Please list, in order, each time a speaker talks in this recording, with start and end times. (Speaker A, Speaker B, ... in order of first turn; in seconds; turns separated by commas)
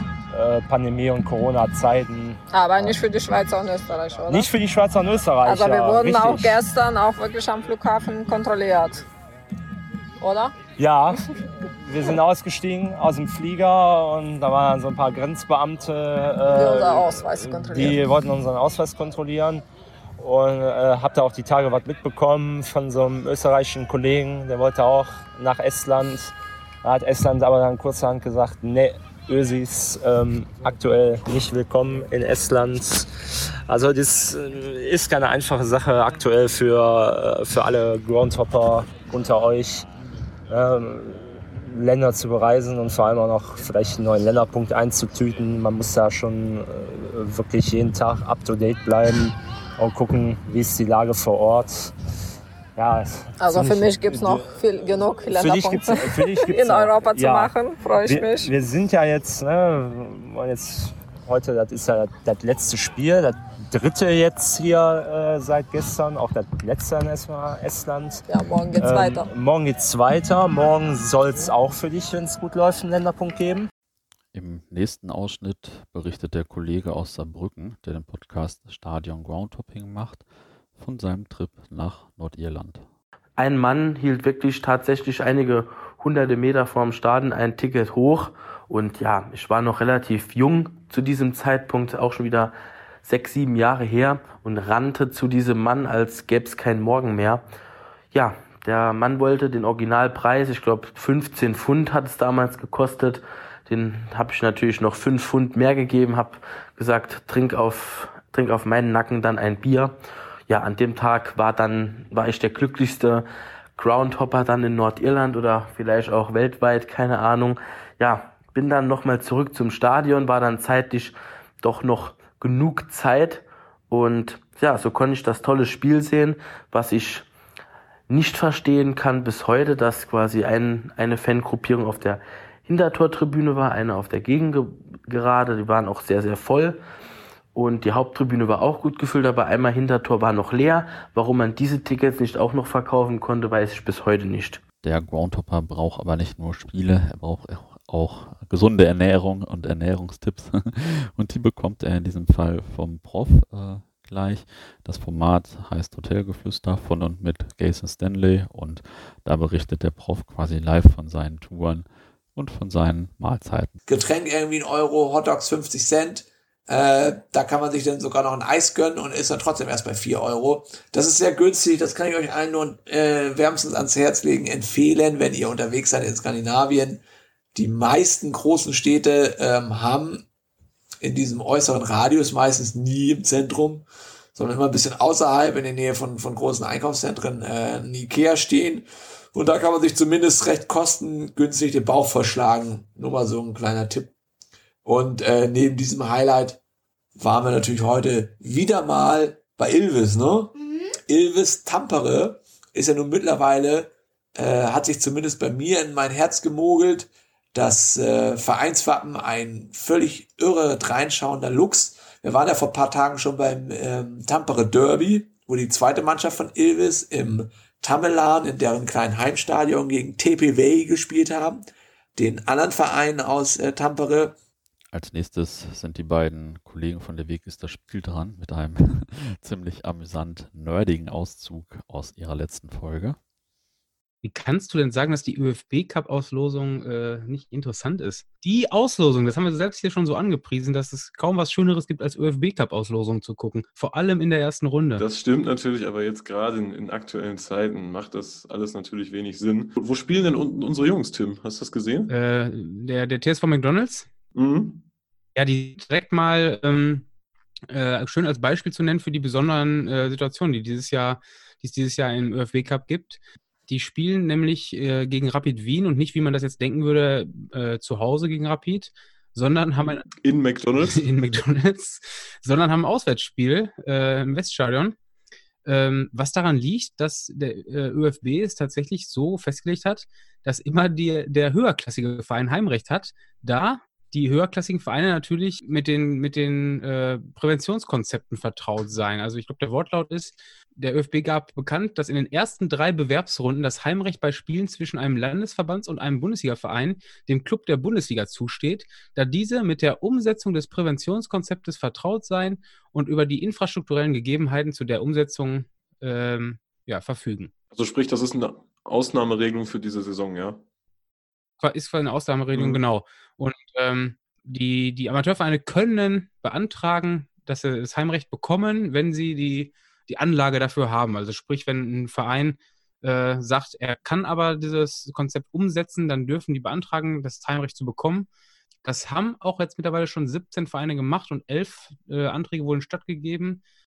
Speaker A: 0.3-3.0, Speaker B: 2.5-4.5, Speaker A: 4.3-6.6, Speaker B: 5.4-9.1, Speaker B: 10.2-10.5, Speaker A: 10.8-19.6, Speaker B: 16.5-18.1, Speaker A: 20.2-39.9, Speaker A: 40.5-51.9, Speaker A: 52.8-73.7, Speaker B: 53.4-58.5, Speaker B: 68.3-69.3, Speaker C: 74.3-80.2, Speaker C: 80.8-82.9, Speaker D: 83.4-92.5, Speaker D: 93.0-97.4, Speaker D: 98.1-110.0, Speaker D: 110.5-113.2, Speaker D: 113.8-127.3, Speaker D: 128.1-136.8, Speaker D: 137.5-144.6, Speaker C: 144.8-163.8, Speaker E: 163.9-177.0, Speaker E: 177.6-180.2, Speaker E: 181.0-183.8, Speaker E: 184.4-194.1, Speaker E: 194.8-196.6, Speaker E: 197.2-200.5, Speaker E: 201.1-221.6, Speaker E: 222.2-224.3, Speaker C: 224.9-233.2, Speaker F: 234.2-245.1, Speaker G: 245.0-252.1, Speaker F: 252.1-254.1, Speaker F: 255.4-257.1, Speaker F: 257.7-270.1, Speaker G: 270.3-271.0, Speaker F: 270.8-274.9, Speaker F: 275.6-307.5, Speaker G: 307.8-310.5, Speaker F: 311.6-328.3, Speaker G: 312.6-312.8, Speaker F: 328.8-333.6